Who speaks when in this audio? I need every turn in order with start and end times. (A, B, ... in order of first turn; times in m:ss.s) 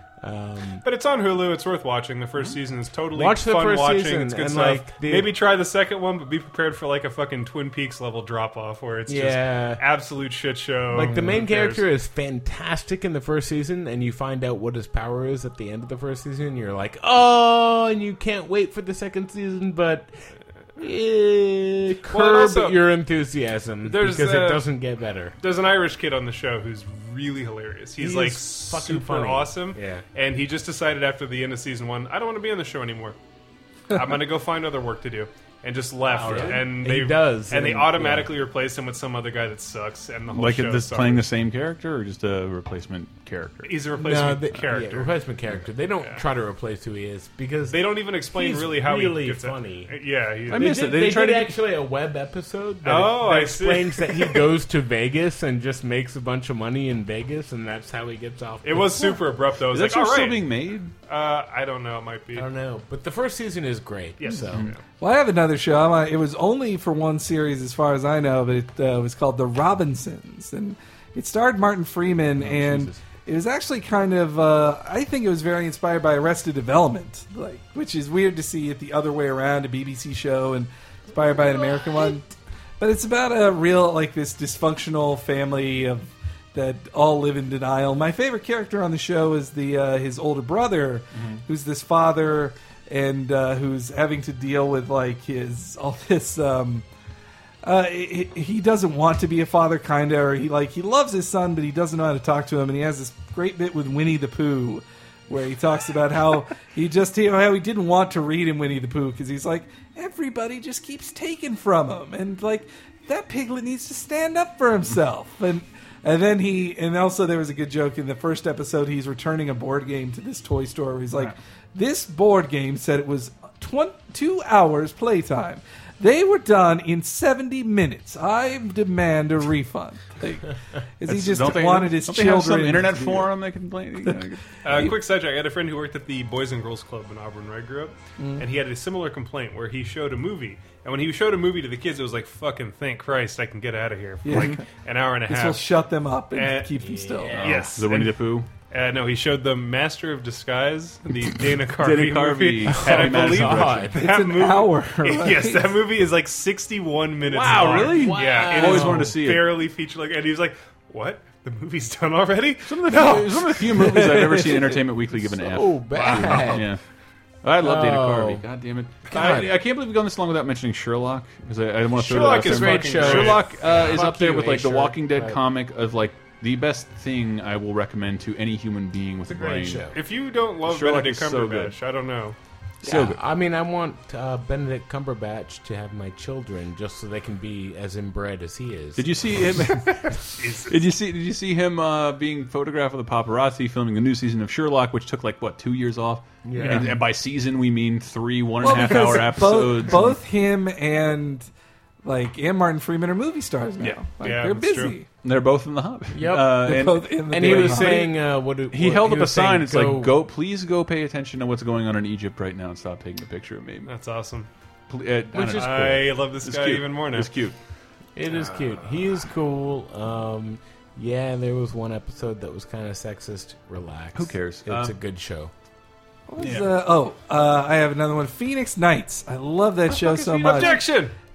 0:00.2-0:00.8 A
0:00.8-0:11.8 B
0:03.1-0:05.3 A
0:09.1-0:09.8 A
0:10.9-0:25.3 A
0:22.1-0:22.8 B
0:23.8-0:24.6 B
0:25.4-0:33.2 B
0:28.0-0:30.0 A
0:33.9-0:41.2 B
0:36.1-0:36.6 C
0:36.2-0:38.3 A
0:40.3-0:43.8 C
0:43.6-0:45.1 B
0:44.0-0:49.9 A
0:47.7-0:50.7 B
0:50.5-0:51.6 C
0:50.5-0:59.2 A
0:52.8-0:54.4 B
0:58.6-1:00.5 B
0:59.6-1:00.9 C
1:01.1-1:02.5 B
1:02.3-1:04.7 A
1:04.2-1:04.8 B
1:04.5-1:04.7 C
1:05.0-1:22.2 D
1:12.4-1:13.0 A
1:22.8-1:36.8 D
1:31.1-1:31.4 C
1:37.6-2:13.3 D
2:11.0-2:14.5 C
2:14.6-2:25.7 B
2:18.2-2:18.4 D
2:24.2-2:24.6 D
2:25.3-2:27.4 D
2:26.3-2:26.7 B
2:26.8-2:27.6 A
2:27.3-2:28.5 C
2:27.4-2:43.6 B
2:31.7-2:33.9 C
2:32.7-2:34.0 A
2:34.0-2:35.7 D
2:37.3-2:39.2 A
2:37.3-2:39.6 C
2:42.6-2:46.8 C
2:43.7-2:44.8 D
2:45.4-2:46.7 A
2:45.9-2:46.6 B
2:47.4-2:59.9 C
2:47.6-2:48.4 A
2:49.1-2:49.5 A
2:52.0-2:53.9 B
2:52.1-2:55.4 A
2:59.3-3:00.0 A
2:59.9-3:02.4 B
3:00.6-3:01.8 C
3:02.8-3:03.2 C
3:02.8-3:09.1 A
3:09.0-3:20.2 C
3:10.4-3:10.8 B
3:16.4-3:17.0 A
3:16.6-3:16.8 B
3:18.6-3:21.5 D
3:22.0-3:25.1 D
3:23.8-3:25.0 B
3:25.2-3:33.9 C
3:26.1-3:30.2 A
3:26.4-3:28.1 D
3:33.8-3:34.5 B
3:34.9-3:37.6 C
3:35.3-3:36.0 A
3:35.5-3:37.3 B
3:38.2-3:45.5 A
3:44.1-3:45.0 C
3:46.3-3:51.0 D
3:46.4-3:46.8 C
3:49.9-3:51.1 B
3:50.4-3:50.7 C